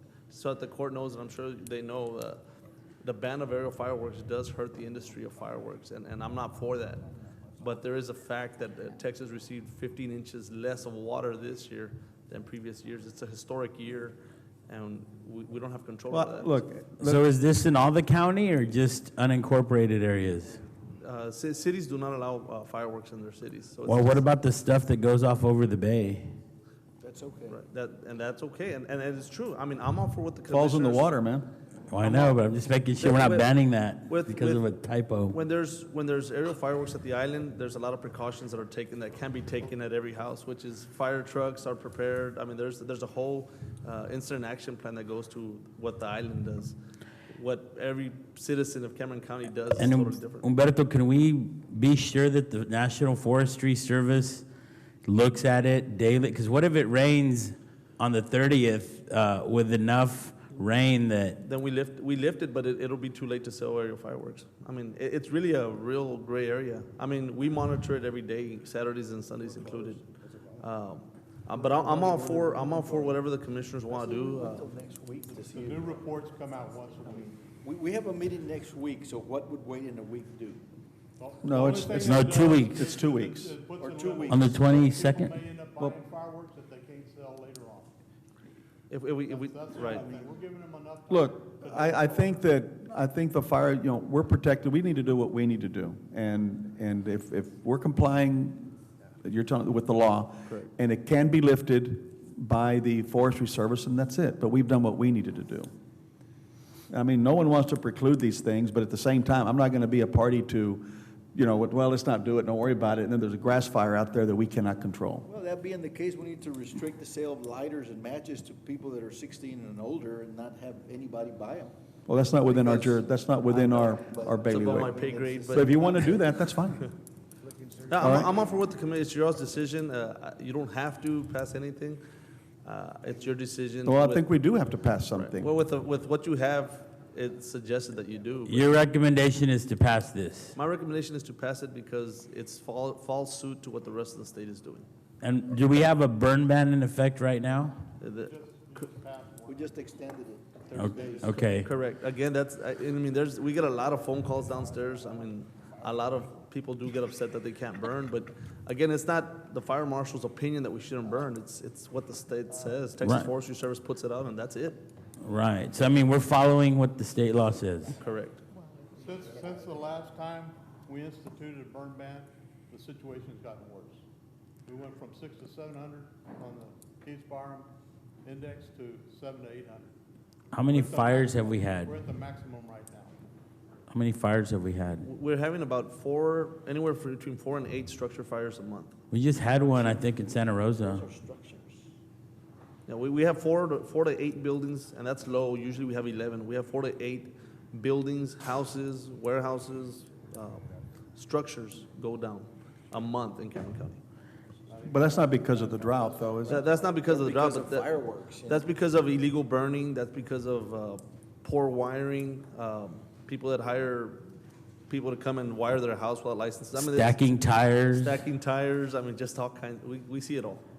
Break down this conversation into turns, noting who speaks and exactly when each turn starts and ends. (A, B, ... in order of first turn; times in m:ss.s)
0:00.3-0:02.4 A
0:03.0-0:07.0 A
0:07.6-0:16.6 A
0:16.1-0:17.2 B
0:17.0-0:20.6 C
0:21.0-0:24.3 A
0:23.8-0:26.3 C
0:27.0-0:27.6 D
0:27.5-0:31.1 A
0:30.5-0:31.5 B
0:31.9-0:35.4 C
0:32.0-0:32.4 A
0:33.0-0:33.5 A
0:34.1-0:34.7 A
0:35.3-0:46.8 A
0:47.3-0:50.5 A
0:49.8-0:54.5 C
0:55.0-1:01.4 C
1:01.4-1:10.0 A
1:09.5-1:10.7 D
1:10.6-1:14.7 A
1:11.5-1:13.2 D
1:13.9-1:16.2 D
1:15.3-1:17.4 E
1:16.9-1:20.7 D
1:21.2-1:27.9 E
1:21.4-1:23.5 B
1:21.9-1:22.9 C
1:23.8-1:24.5 D
1:24.3-1:25.4 C
1:28.9-1:30.1 A
1:29.3-1:32.4 E
1:29.9-1:30.3 D
1:31.1-1:45.7 B
1:46.9-1:55.3 B
1:55.2-2:01.7 D
2:02.1-2:04.9 B
2:02.6-2:03.0 A
2:03.4-2:06.2 D
2:04.5-2:06.1 A
2:05.5-2:06.9 B
2:07.4-2:08.3 D
2:07.9-2:12.0 A
2:08.0-2:08.3 B
2:12.6-2:14.3 A
2:13.8-2:15.5 B
2:15.1-2:18.8 A
2:18.5-2:20.6 C
2:20.5-2:24.9 A
2:25.2-2:27.8 C
2:28.0-2:28.4 A
2:28.2-2:29.8 E
2:29.4-2:31.4 D
2:30.7-2:31.7 C
2:30.8-2:31.5 E
2:31.5-2:44.8 A
2:43.0-2:43.3 C
2:45.2-2:48.0 C
2:48.0-2:48.4 A
2:48.9-2:54.0 E
2:54.7-2:57.7 E
2:58.2-2:59.9 E
3:00.5-3:02.0 C
3:00.7-3:03.2 E
3:03.9-3:05.0 C
3:05.0-3:09.0 A
3:09.1-3:11.0 C
3:09.5-3:10.0 D
3:10.8-3:11.9 D
3:12.9-3:24.0 A
3:24.7-3:27.1 E
3:24.8-3:26.6 B
3:26.5-3:27.9 A
3:27.0-3:28.7 D
3:28.4-3:34.2 A
3:34.9-3:37.3 A
3:36.8-3:38.2 C
3:37.9-3:40.6 A